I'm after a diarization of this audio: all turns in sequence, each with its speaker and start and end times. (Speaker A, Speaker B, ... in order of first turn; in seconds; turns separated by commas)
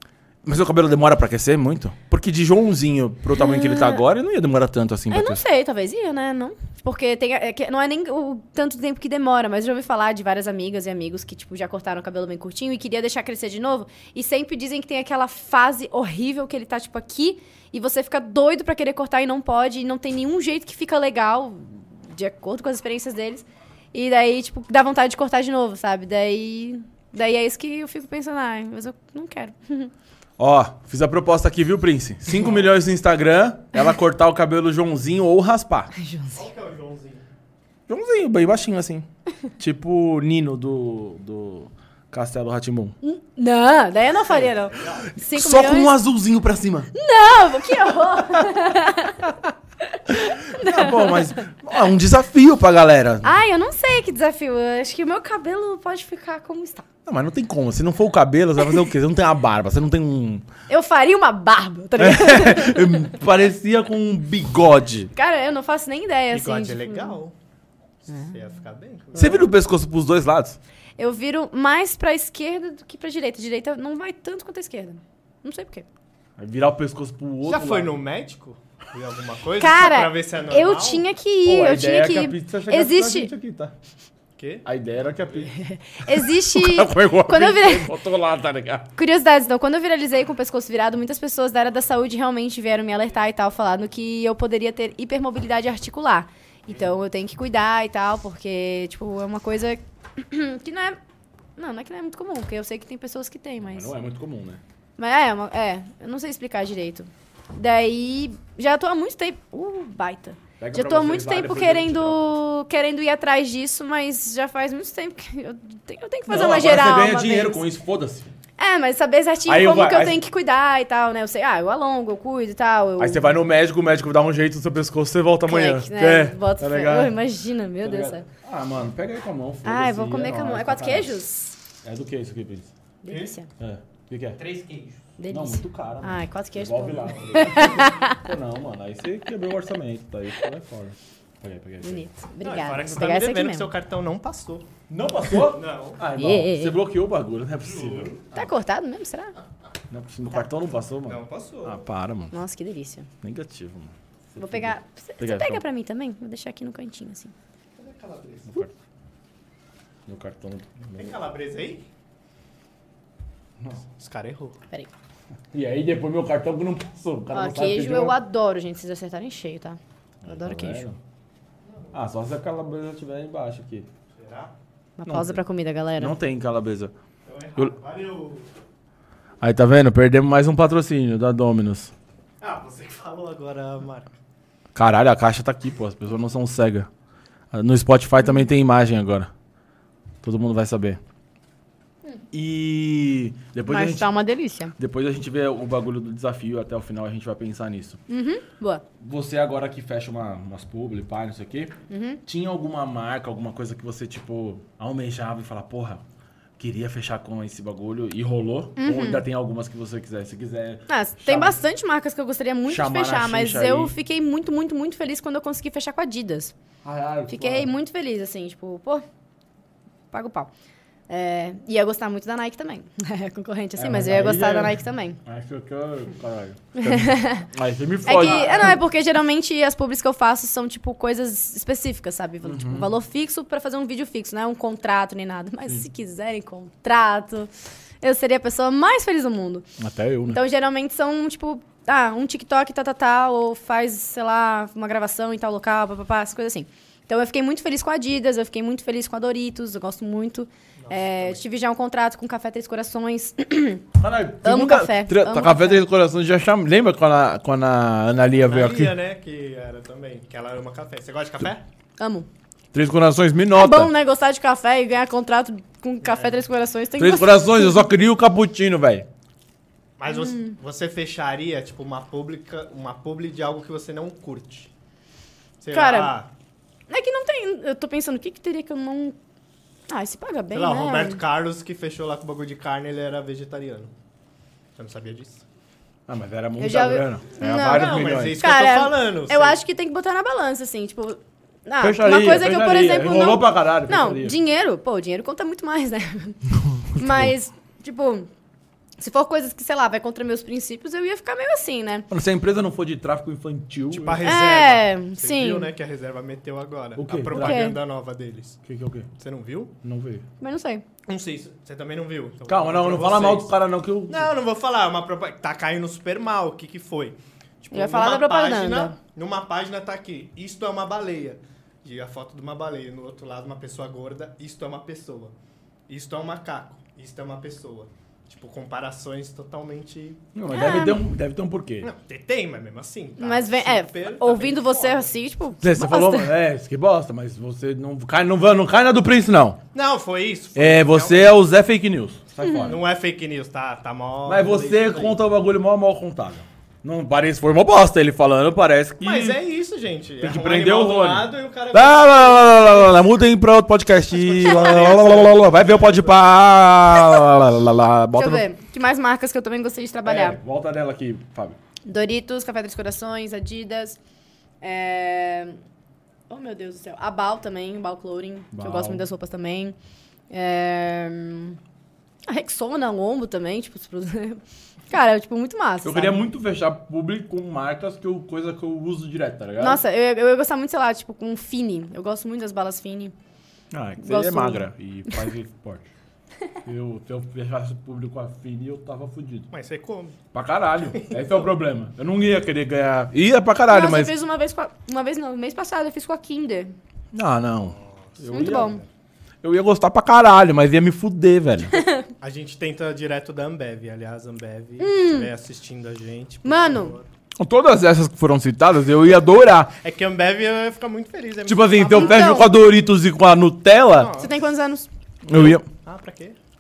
Speaker A: 0.4-5.4, Speaker B: 3.3-4.0, Speaker B: 5.1-29.9, Speaker A: 30.4-35.9, Speaker B: 35.9-36.5, Speaker C: 36.3-37.2, Speaker A: 37.9-39.0, Speaker A: 39.6-43.0, Speaker B: 43.0-45.9, Speaker C: 44.7-45.0, Speaker A: 45.2-46.9, Speaker B: 46.9-51.4, Speaker A: 50.1-53.3, Speaker B: 53.2-56.9, Speaker A: 57.0-60.5, Speaker B: 60.7-63.1, Speaker A: 62.0-65.1, Speaker B: 65.1-67.2, Speaker C: 66.3-67.3, Speaker B: 68.1-68.3, Speaker C: 68.2-69.5, Speaker A: 69.1-70.6, Speaker B: 71.0-75.9, Speaker A: 76.4-77.9, Speaker C: 77.5-81.0, Speaker B: 79.6-83.3, Speaker A: 81.5-83.7, Speaker C: 84.4-84.7, Speaker A: 84.7-85.5, Speaker B: 85.5-87.9, Speaker A: 86.1-88.9, Speaker B: 89.0-101.0, Speaker B: 101.6-103.9, Speaker A: 103.6-104.6, Speaker B: 105.0-117.6, Speaker A: 110.6-112.2, Speaker A: 116.3-118.3, Speaker B: 118.6-123.4, Speaker A: 119.5-120.2, Speaker A: 123.0-127.2, Speaker B: 125.5-128.3, Speaker A: 127.8-131.2, Speaker B: 129.6-131.6, Speaker A: 131.8-132.7, Speaker B: 133.0-133.5, Speaker A: 133.6-134.4, Speaker C: 134.4-135.0, Speaker B: 135.2-138.2, Speaker A: 135.3-142.1, Speaker B: 141.8-143.7, Speaker C: 142.4-144.7, Speaker A: 144.9-148.2, Speaker C: 145.4-146.0, Speaker B: 146.1-146.8, Speaker C: 147.7-148.2, Speaker B: 148.3-149.3, Speaker A: 149.9-152.3, Speaker C: 151.1-151.9, Speaker B: 152.3-153.1, Speaker A: 153.2-155.6, Speaker B: 154.4-157.3, Speaker C: 157.8-158.6, Speaker A: 160.1-161.2, Speaker C: 160.9-161.8, Speaker C: 164.0-164.6, Speaker A: 165.5-168.2, Speaker B: 167.3-170.8, Speaker A: 170.2-171.0, Speaker C: 171.6-171.9, Speaker A: 171.9-173.9, Speaker C: 174.2-174.5, Speaker B: 175.0-176.2, Speaker A: 175.1-175.4, Speaker A: 176.0-176.9, Speaker C: 177.3-178.5, Speaker A: 179.4-181.9, Speaker C: 182.4-184.1, Speaker A: 184.7-186.9, Speaker A: 187.5-189.3, Speaker A: 190.2-191.0, Speaker A: 192.3-194.1, Speaker B: 193.7-194.7, Speaker A: 194.8-198.0, Speaker B: 198.1-198.8, Speaker A: 199.0-201.7, Speaker B: 201.9-202.2, Speaker A: 202.3-206.0, Speaker A: 206.6-211.6, Speaker B: 208.8-209.2, Speaker B: 210.9-216.5, Speaker A: 212.7-213.9, Speaker A: 216.8-217.7, Speaker B: 217.3-219.0, Speaker B: 220.1-220.5, Speaker B: 221.1-225.2, Speaker A: 223.8-228.8, Speaker B: 226.7-227.5, Speaker B: 228.1-239.7, Speaker C: 228.1-228.8, Speaker A: 232.4-232.9, Speaker A: 239.8-240.4, Speaker B: 240.3-253.9, Speaker C: 250.8-251.4, Speaker A: 254.0-258.9, Speaker B: 254.4-255.8, Speaker C: 258.4-261.6, Speaker B: 262.0-262.3, Speaker A: 262.7-263.9, Speaker B: 263.5-267.8, Speaker C: 266.0-266.4, Speaker A: 267.0-269.1, Speaker C: 270.0-274.7, Speaker B: 270.1-270.6, Speaker C: 275.6-276.3, Speaker B: 275.7-276.1, Speaker B: 276.9-279.2, Speaker B: 279.9-281.2, Speaker C: 280.5-283.9, Speaker C: 284.8-285.4, Speaker A: 286.1-288.4, Speaker B: 286.6-298.3, Speaker C: 287.6-289.6, Speaker A: 291.8-294.4, Speaker A: 296.8-297.3, Speaker B: 299.0-302.1, Speaker A: 302.1-304.3, Speaker C: 303.9-308.6, Speaker B: 304.2-305.7, Speaker A: 306.9-307.7, Speaker B: 307.3-307.8, Speaker A: 308.6-309.1, Speaker C: 309.2-309.7, Speaker A: 309.8-310.2, Speaker B: 310.4-310.8, Speaker C: 311.1-313.5, Speaker A: 312.5-314.3, Speaker C: 314.1-325.3, Speaker B: 317.7-318.9, Speaker C: 325.9-330.2, Speaker A: 330.3-331.9, Speaker B: 330.5-331.0, Speaker C: 331.8-335.1, Speaker B: 333.2-336.3, Speaker A: 335.6-339.6, Speaker C: 339.7-341.4, Speaker A: 340.6-342.8, Speaker B: 342.4-342.7, Speaker C: 342.6-345.2, Speaker A: 344.3-349.4, Speaker C: 349.0-353.0, Speaker A: 350.2-358.4, Speaker C: 354.1-356.2, Speaker B: 354.4-354.7, Speaker B: 358.1-360.4, Speaker A: 360.1-361.6, Speaker B: 361.9-364.0, Speaker B: 364.6-365.6, Speaker B: 366.3-369.8, Speaker A: 368.5-369.0, Speaker B: 370.3-371.6, Speaker B: 372.3-376.2, Speaker A: 375.8-379.8, Speaker B: 379.6-383.1, Speaker A: 383.7-385.9, Speaker B: 384.0-385.2, Speaker A: 386.6-389.5, Speaker C: 389.5-390.2, Speaker A: 390.3-394.1, Speaker C: 390.9-391.4, Speaker B: 393.7-396.8, Speaker A: 397.1-398.8, Speaker C: 397.6-398.8, Speaker B: 398.3-398.8, Speaker A: 399.4-401.8, Speaker B: 401.7-402.1, Speaker C: 402.2-407.1, Speaker B: 404.8-405.3, Speaker B: 406.4-406.9, Speaker A: 407.4-409.7, Speaker C: 409.8-412.4, Speaker A: 411.4-414.1, Speaker B: 411.8-412.5, Speaker C: 413.9-414.4, Speaker B: 414.2-414.9, Speaker A: 415.3-415.6, Speaker C: 415.3-416.4